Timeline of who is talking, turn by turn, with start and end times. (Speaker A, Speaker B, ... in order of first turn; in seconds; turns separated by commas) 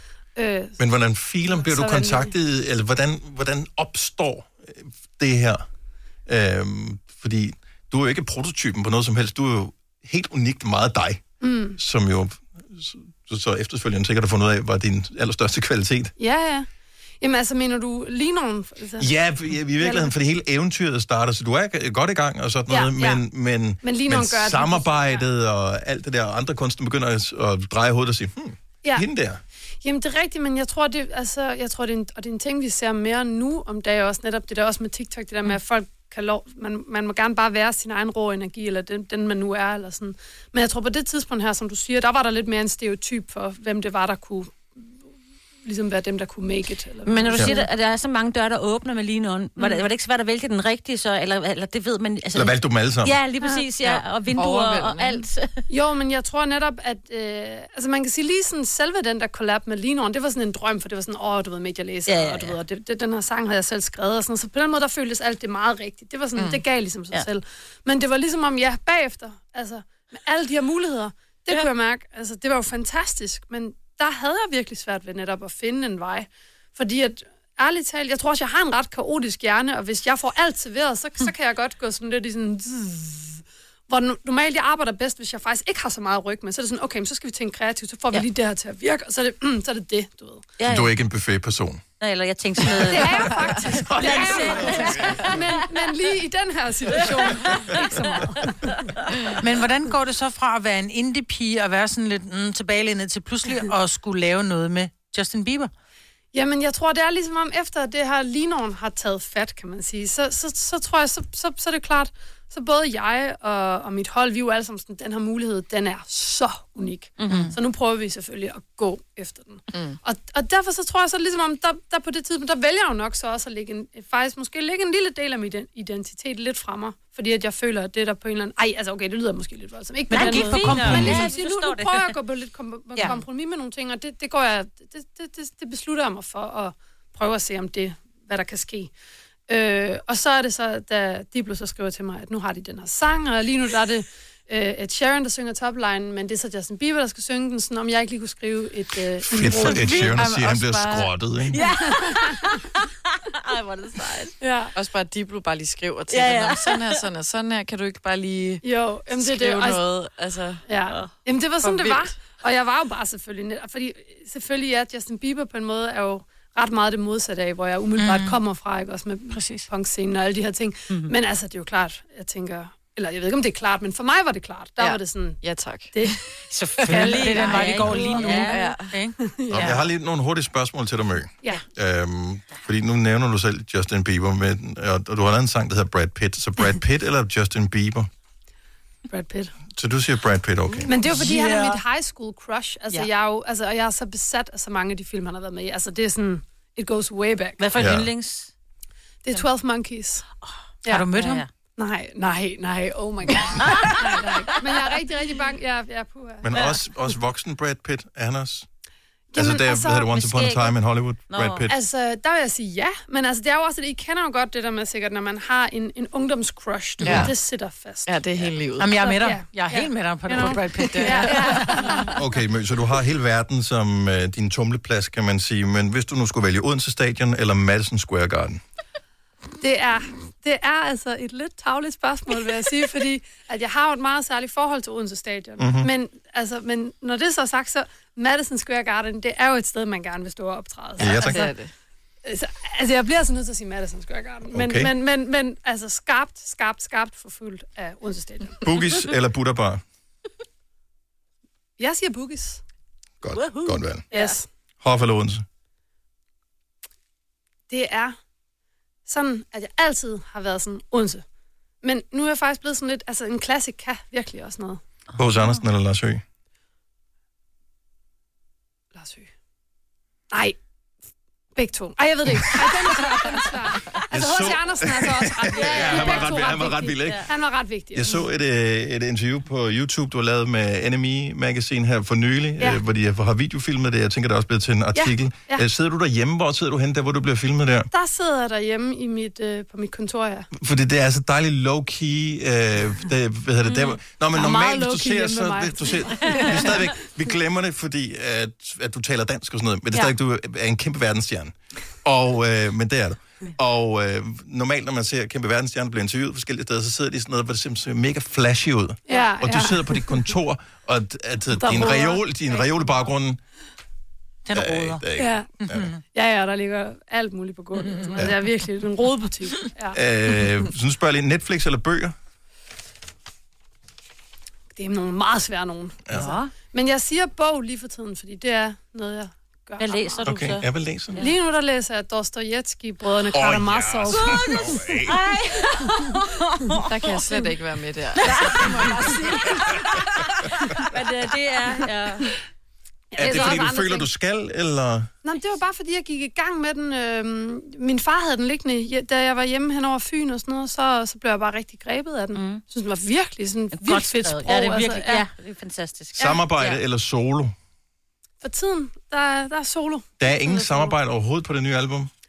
Speaker A: 0.3-0.8, Speaker B: 0.8-5.6, Speaker A: 1.5-2.3, Speaker B: 6.3-11.2, Speaker A: 11.4-11.8, Speaker B: 11.8-16.1, Speaker A: 16.2-16.7, Speaker A: 17.2-19.1, Speaker B: 19.0-29.4, Speaker A: 19.7-20.1, Speaker A: 22.7-23.2, Speaker A: 23.8-25.2, Speaker A: 29.8-44.8, Speaker A: 45.6-47.6, Speaker C: 47.0-55.6, Speaker B: 47.3-47.6, Speaker B: 52.3-53.2, Speaker D: 53.8-55.2, Speaker A: 55.7-90.5, Speaker C: 62.1-62.5, Speaker D: 66.3-66.6, Speaker C: 90.6-90.9, Speaker B: 90.6-91.8, Speaker C: 92.0-95.7, Speaker A: 92.9-98.5, Speaker C: 97.0-97.8, Speaker E: 99.4-105.7, Speaker A: 106.3-138.9, Speaker C: 117.2-117.5, Speaker E: 117.3-117.5, Speaker D: 119.7-120.0, Speaker C: 130.1-132.1, Speaker E: 130.1-131.3, Speaker A: 139.5-150.1, Speaker B: 149.2-151.6, Speaker C: 149.5-150.4, Speaker E: 149.8-151.1, Speaker C: 151.5-154.3, Speaker A: 151.9-152.3, Speaker A: 154.4-154.7, Speaker D: 154.7-160.6, Speaker C: 156.1-157.0, Speaker A: 158.6-159.8, Speaker A: 160.7-175.4, Speaker C: 160.9-161.2, Speaker D: 161.6-162.3, Speaker E: 168.0-168.3, Speaker E: 169.3-169.7, Speaker D: 174.8-175.9, Speaker A: 175.9-176.2, Speaker E: 176.5-179.8, Speaker C: 176.8-178.8, Speaker A: 176.9-178.3, Speaker D: 177.9-178.9, Speaker A: 179.2-179.8, Speaker B: 179.5-188.1, Speaker A: 189.1-189.5, Speaker B: 189.7-191.0, Speaker A: 190.9-197.6, Speaker E: 191.2-191.6, Speaker C: 191.2-191.8, Speaker C: 197.6-198.5, Speaker B: 197.7-198.1, Speaker A: 199.2-200.2, Speaker E: 200.9-201.4, Speaker C: 201.1-201.5, Speaker A: 201.8-206.4, Speaker C: 203.6-204.1, Speaker B: 206.4-208.7, Speaker C: 206.5-206.8, Speaker A: 209.3-210.1, Speaker B: 209.3-211.7, Speaker C: 210.0-210.8, Speaker C: 211.3-211.7, Speaker A: 211.7-218.2, Speaker D: 217.0-217.3, Speaker D: 218.1-219.1, Speaker E: 218.8-222.0, Speaker A: 219.0-222.1, Speaker D: 220.3-221.9, Speaker B: 222.2-228.6, Speaker A: 229.6-241.5, Speaker B: 235.6-235.9, Speaker B: 241.0-241.5, Speaker D: 241.2-241.7, Speaker A: 242.2-248.6, Speaker B: 244.5-244.9, Speaker B: 248.6-249.8, Speaker A: 251.8-252.6, Speaker B: 253.2-254.1, Speaker C: 253.3-254.3, Speaker A: 254.1-254.5, Speaker B: 254.8-255.4, Speaker A: 257.7-258.2, Speaker A: 259.1-261.2, Speaker A: 261.8-264.8, Speaker B: 265.1-266.2, Speaker A: 268.9-269.3, Speaker A: 270.3-270.6, Speaker A: 271.6-278.2, Speaker B: 274.1-277.3, Speaker C: 275.5-277.2, Speaker B: 277.9-287.9, Speaker A: 284.9-285.6, Speaker A: 287.9-290.5, Speaker B: 290.5-313.4, Speaker A: 294.3-296.9, Speaker C: 296.2-296.5, Speaker A: 309.1-310.3, Speaker A: 311.5-313.1, Speaker E: 314.5-315.0, Speaker B: 314.5-315.9, Speaker A: 315.2-315.5, Speaker A: 316.0-320.0, Speaker B: 319.9-322.1, Speaker A: 324.7-330.4, Speaker C: 326.1-326.5, Speaker C: 329.8-331.3, Speaker B: 330.2-331.2, Speaker A: 331.1-336.1, Speaker B: 333.3-335.1, Speaker C: 334.1-337.4, Speaker D: 336.9-339.0, Speaker C: 338.2-342.3, Speaker A: 338.2-339.9, Speaker A: 343.1-344.1, Speaker B: 343.2-345.1, Speaker A: 345.2-355.2, Speaker C: 352.3-352.6, Speaker C: 353.7-356.8, Speaker B: 356.1-357.5, Speaker A: 358.4-360.9, Speaker B: 360.2-362.1